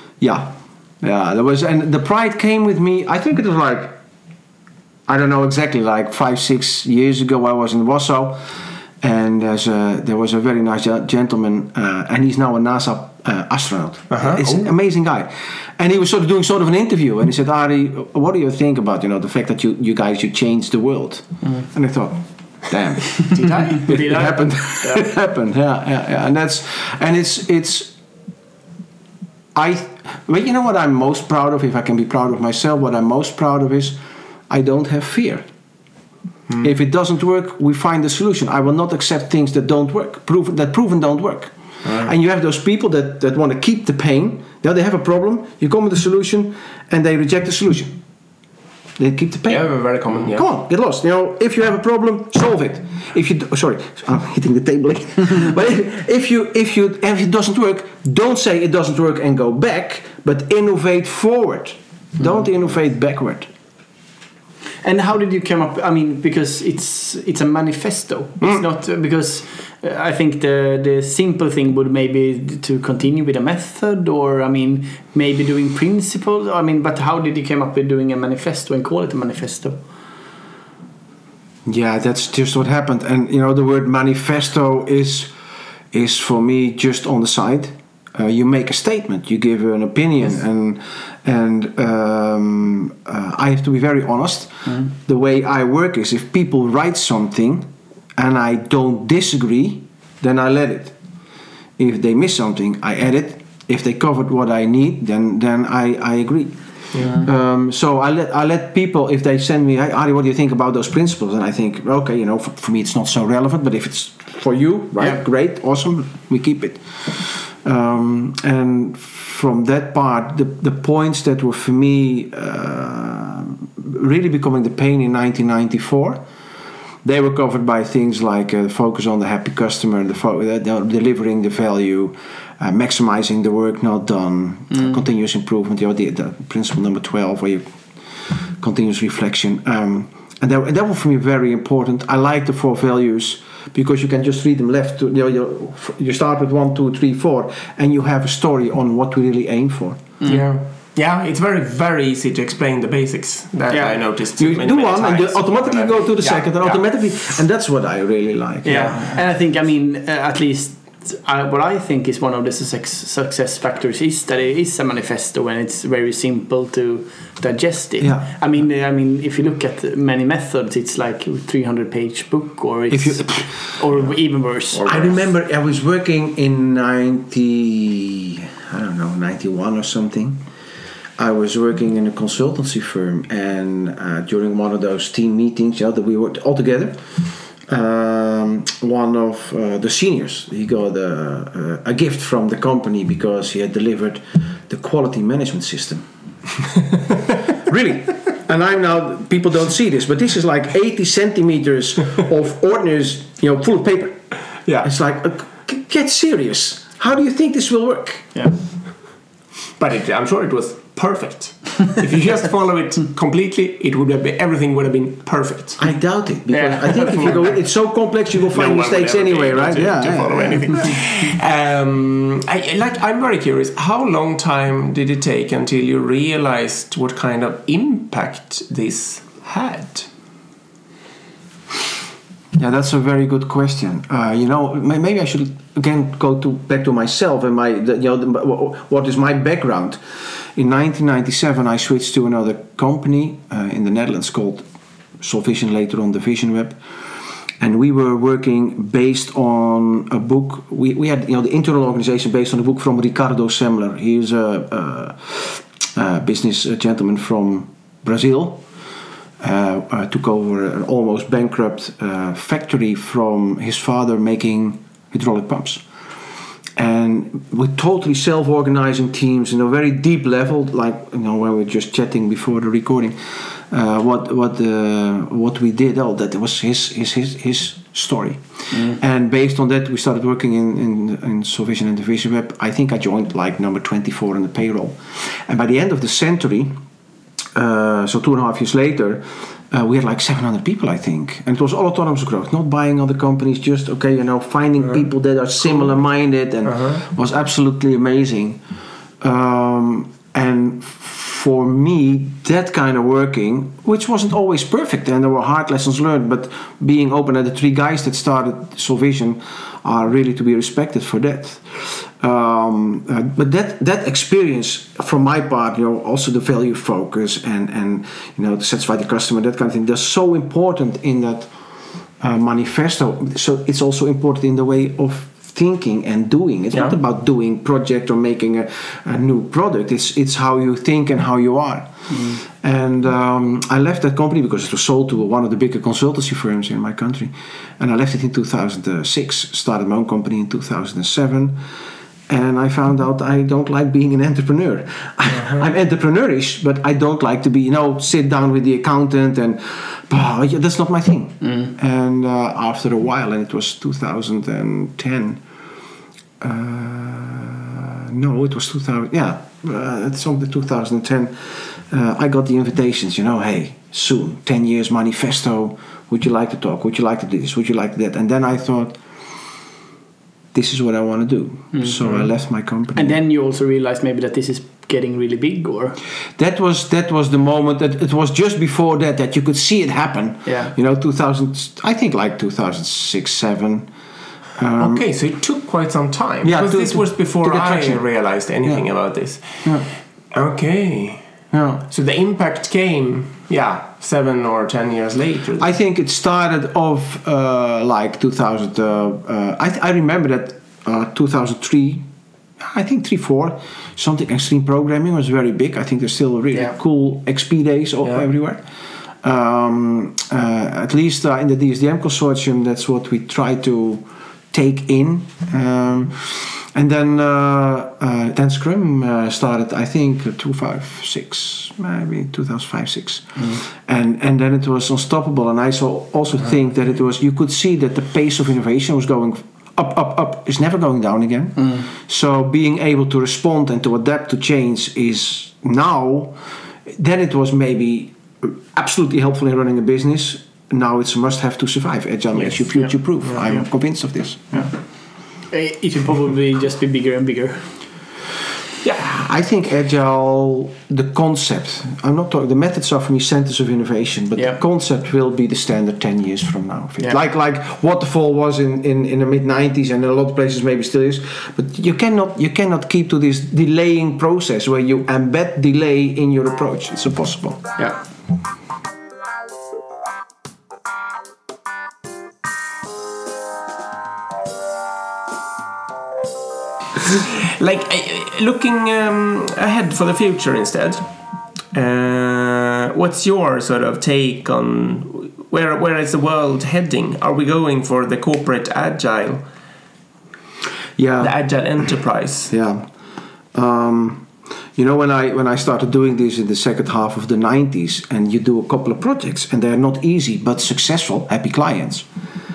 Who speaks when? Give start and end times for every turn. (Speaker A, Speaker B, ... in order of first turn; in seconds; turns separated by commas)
Speaker A: 0.2-3.9, Speaker A: 5.1-8.4, Speaker A: 9.0-27.9, Speaker B: 14.1-14.5, Speaker B: 23.3-24.0, Speaker C: 23.8-25.1, Speaker A: 29.6-34.0, Speaker A: 34.5-35.5, Speaker A: 36.6-47.9, Speaker B: 41.9-42.1, Speaker A: 49.0-63.5, Speaker B: 49.5-50.5, Speaker C: 64.8-79.8, Speaker A: 81.7-85.3, Speaker A: 85.9-101.0, Speaker A: 101.8-126.2, Speaker B: 106.9-107.2, Speaker C: 107.0-107.2, Speaker A: 127.0-137.7, Speaker A: 138.3-150.0, Speaker C: 150.2-150.5, Speaker B: 150.3-156.8, Speaker C: 153.7-154.0, Speaker A: 154.4-159.2, Speaker C: 158.6-175.2, Speaker B: 158.7-159.2, Speaker A: 168.0-168.3, Speaker A: 172.9-173.7, Speaker A: 174.8-180.4, Speaker A: 181.2-187.0, Speaker A: 187.6-196.1, Speaker A: 197.6-204.3, Speaker A: 204.8-208.3, Speaker B: 209.8-215.8, Speaker A: 215.8-221.0, Speaker C: 216.5-217.5, Speaker B: 217.0-217.6, Speaker B: 218.5-230.1, Speaker A: 232.6-240.0, Speaker A: 240.6-244.7, Speaker A: 245.2-246.8, Speaker A: 247.6-258.6, Speaker A: 259.4-265.8, Speaker A: 266.8-286.8, Speaker A: 287.6-298.6, Speaker B: 296.7-297.0, Speaker A: 299.2-321.5, Speaker A: 322.2-341.6, Speaker C: 332.1-332.4, Speaker A: 342.3-355.4, Speaker C: 351.4-351.7, Speaker A: 356.4-369.0, Speaker A: 370.5-373.2, Speaker C: 372.9-376.0, Speaker A: 376.4-383.9, Speaker C: 380.5-380.7, Speaker A: 384.6-385.0, Speaker B: 384.8-391.2, Speaker A: 386.4-388.0, Speaker A: 389.6-389.9, Speaker A: 391.5-391.8, Speaker B: 391.9-395.7, Speaker A: 395.6-402.1, Speaker A: 402.6-408.6, Speaker A: 409.2-436.4, Speaker C: 431.6-431.9, Speaker A: 436.9-444.7, Speaker C: 445.5-447.8, Speaker A: 448.9-467.6, Speaker B: 477.1-481.1, Speaker B: 481.7-489.4, Speaker A: 491.0-491.4, Speaker B: 491.2-492.5, Speaker A: 492.5-492.9, Speaker A: 493.5-502.1